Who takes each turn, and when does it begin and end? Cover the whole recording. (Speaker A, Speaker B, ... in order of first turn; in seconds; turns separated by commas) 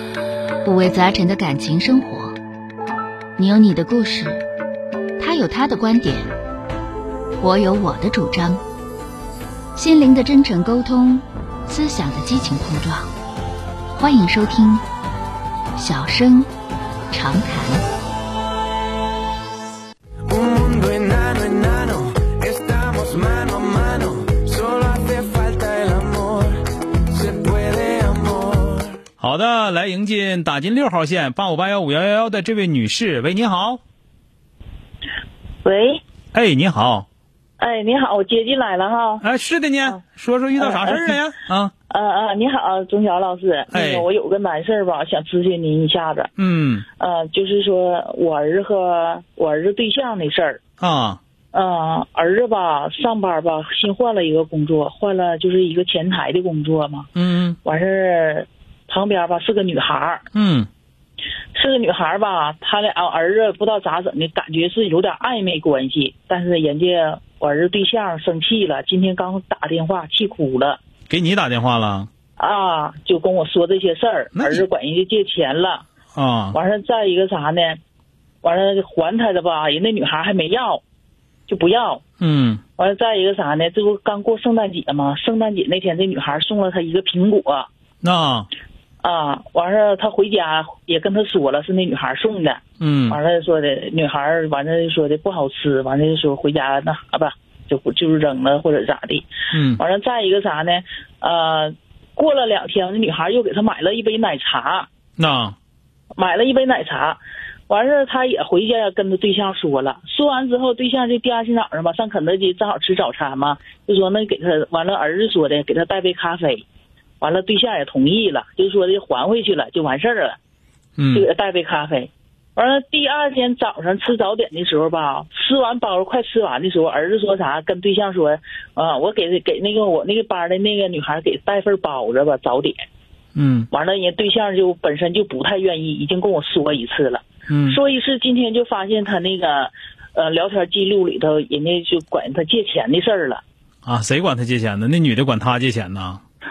Speaker A: 0.6-2.4, Speaker A: 3.4-4.4, Speaker A: 5.2-6.3, Speaker A: 7.4-8.6, Speaker A: 9.8-13.1, Speaker A: 13.9-14.8, Speaker A: 15.8-16.5, Speaker A: 17.1-17.8, Speaker B: 20.3-26.6, Speaker B: 27.1-28.8, Speaker C: 29.2-33.8, Speaker D: 35.6-36.0, Speaker C: 36.3-37.0, Speaker D: 37.6-39.2, Speaker C: 39.2-41.7, Speaker D: 40.5-41.2, Speaker D: 41.9-46.3, Speaker C: 43.7-44.0, Speaker C: 46.4-46.8, Speaker D: 47.0-50.6, Speaker C: 50.8-51.2, Speaker D: 51.5-57.1, Speaker C: 57.1-57.6, Speaker D: 57.6-60.2, Speaker C: 60.3-60.7, Speaker D: 61.5-70.8, Speaker C: 71.1-72.1, Speaker D: 72.4-75.8, Speaker C: 74.3-74.6, Speaker C: 76.1-76.6, Speaker D: 76.5-77.8, Speaker D: 78.4-80.8, Speaker D: 81.5-82.0, Speaker C: 82.2-82.6, Speaker D: 82.8-87.7, Speaker C: 88.0-88.5, Speaker D: 89.0-104.9, Speaker C: 92.8-93.2, Speaker C: 99.5-99.8, Speaker C: 105.2-105.5, Speaker D: 106.2-116.6, Speaker D: 117.2-120.4, Speaker C: 121.0-121.3, Speaker D: 121.1-132.8, Speaker C: 133.3-133.7, Speaker D: 133.7-143.4, Speaker C: 137.5-137.8, Speaker C: 143.8-146.2